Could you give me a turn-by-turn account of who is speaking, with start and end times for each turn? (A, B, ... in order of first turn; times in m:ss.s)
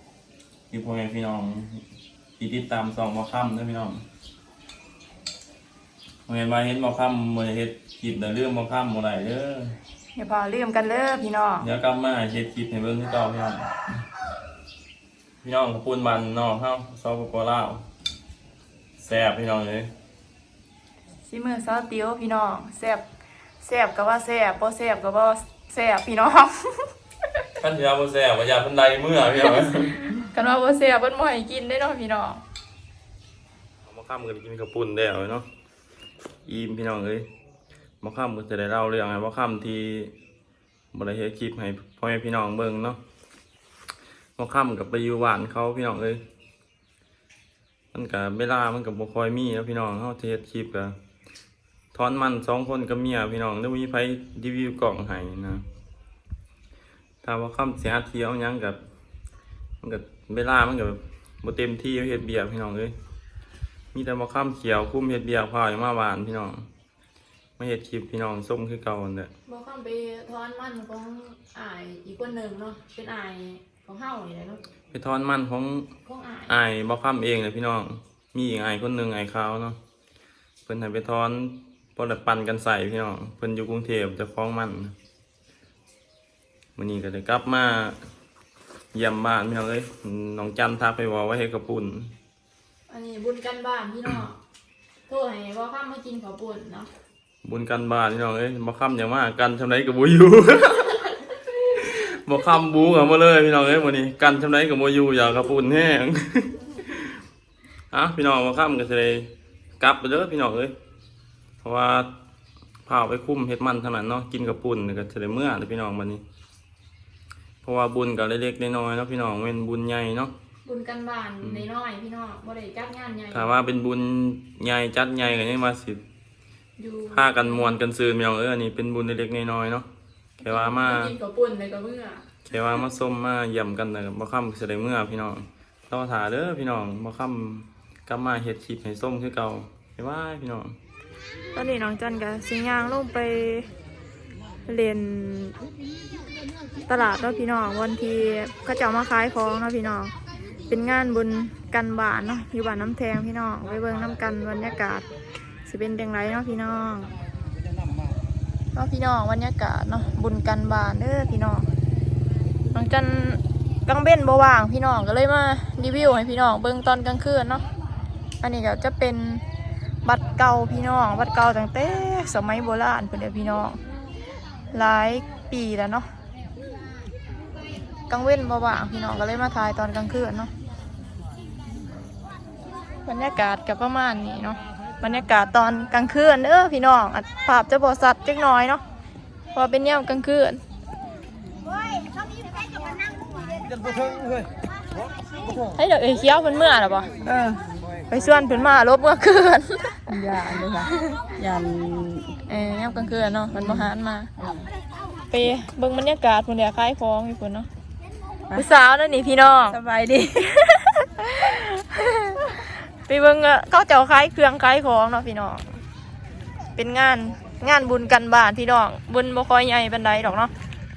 0:00.7-0:01.8 A
0:02.4-0:04.0 A
0:06.3-0:09.8 A
0:10.1-0:11.7 B
0:11.6-0:13.7 A
0:15.4-0:17.8 A
0:19.0-0:19.9 A
0:21.2-0:23.0 B
0:23.6-0:26.8 B
0:27.6-0:30.1 A
0:30.2-0:32.4 B
0:33.8-0:35.5 A
0:36.5-0:37.2 A
0:38.0-0:40.1 A
0:40.9-0:43.0 A
0:44.4-0:46.2 A
0:47.9-0:50.9 A
0:51.9-0:55.6 A
0:57.2-0:58.8 A
0:59.8-1:02.9 A
1:03.9-1:06.6 A
1:07.6-1:09.3 A
1:09.5-1:14.6 B
1:14.9-1:15.9 A
1:16.0-1:16.6 B
1:16.5-1:19.8 A
1:20.6-1:24.9 A
1:26.8-1:28.0 A
1:28.9-1:32.1 A
1:32.9-1:34.4 B
1:35.1-1:36.9 B
1:37.4-1:41.0 A
1:41.7-1:47.1 A
1:47.9-1:50.7 A
1:51.6-1:52.1 A
1:52.8-1:56.2 A
1:57.6-2:00.3 A
2:00.6-2:03.5 B
2:01.4-2:01.7 A
2:03.3-2:06.0 A
2:06.8-2:07.8 B
2:07.1-2:09.9 A
2:10.4-2:11.1 A
2:10.4-2:12.2 B
2:12.4-2:20.8 A
2:21.5-2:23.7 B
2:24.7-2:25.5 B
2:26.8-2:30.1 B
2:30.7-2:35.0 B
2:35.6-2:37.1 B
2:38.7-2:41.7 B
2:42.7-2:47.6 B
2:48.4-2:49.4 B
2:50.0-2:53.8 B
2:54.7-2:56.1 B
2:58.1-3:00.5 B
3:03.0-3:08.8 B
3:09.5-3:10.6 B
3:15.7-3:17.1 B
3:17.2-3:17.6 C
3:18.1-3:20.0 B
3:20.1-3:22.3 C
3:22.5-3:24.3 B
3:23.5-3:24.7 C
3:25.3-3:27.7 B
3:28.5-3:29.8 B
3:29.7-3:30.7 C
3:30.6-3:32.5 B
3:33.0-3:35.6 B
3:36.8-3:40.5 B